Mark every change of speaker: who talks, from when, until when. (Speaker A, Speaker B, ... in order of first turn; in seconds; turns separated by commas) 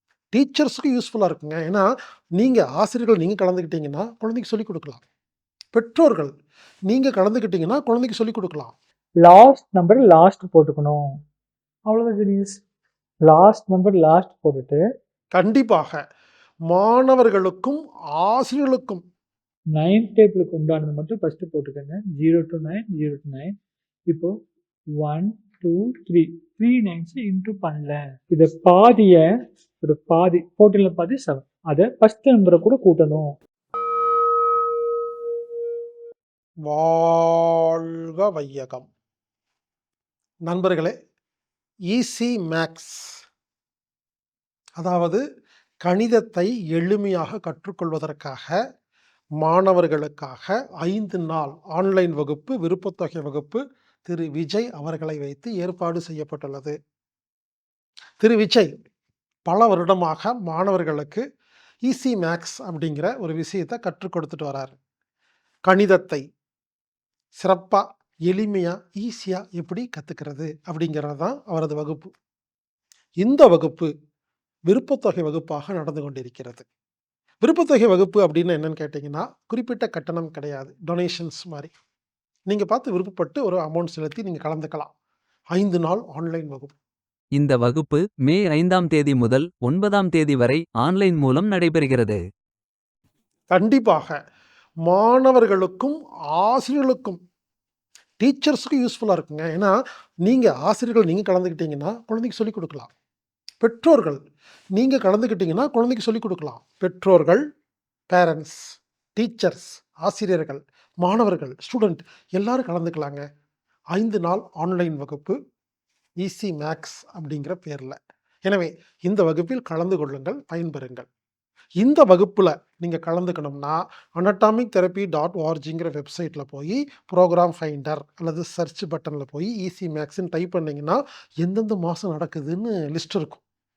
Speaker A: 0.3-1.8, Speaker A: 2.4-5.0, Speaker A: 5.7-6.3, Speaker A: 6.9-8.7, Speaker B: 9.2-11.1, Speaker B: 11.9-12.6, Speaker B: 13.2-14.8, Speaker A: 15.3-16.0, Speaker A: 16.7-19.0, Speaker B: 19.7-23.5, Speaker B: 24.1-24.3, Speaker B: 25.0-33.3, Speaker A: 36.6-38.9, Speaker A: 40.5-40.9, Speaker A: 41.9-42.9, Speaker A: 44.8-45.2, Speaker A: 45.8-48.5, Speaker A: 49.4-56.7, Speaker A: 58.2-58.7, Speaker A: 59.5-61.2, Speaker A: 61.8-64.7, Speaker A: 65.7-66.2, Speaker A: 67.4-72.1, Speaker A: 73.2-73.9, Speaker A: 74.7-76.6, Speaker A: 77.4-81.7, Speaker A: 82.5-84.9, Speaker A: 85.5-86.7, Speaker C: 87.3-92.2, Speaker A: 93.5-94.2, Speaker A: 94.9-97.2, Speaker A: 98.2-99.7, Speaker A: 100.2-102.9, Speaker A: 103.6-104.2, Speaker A: 104.8-107.4, Speaker A: 108.1-108.6, Speaker A: 109.2-113.2, Speaker A: 113.9-115.3, Speaker A: 116.2-117.9, Speaker A: 118.5-121.1, Speaker A: 121.8-133.4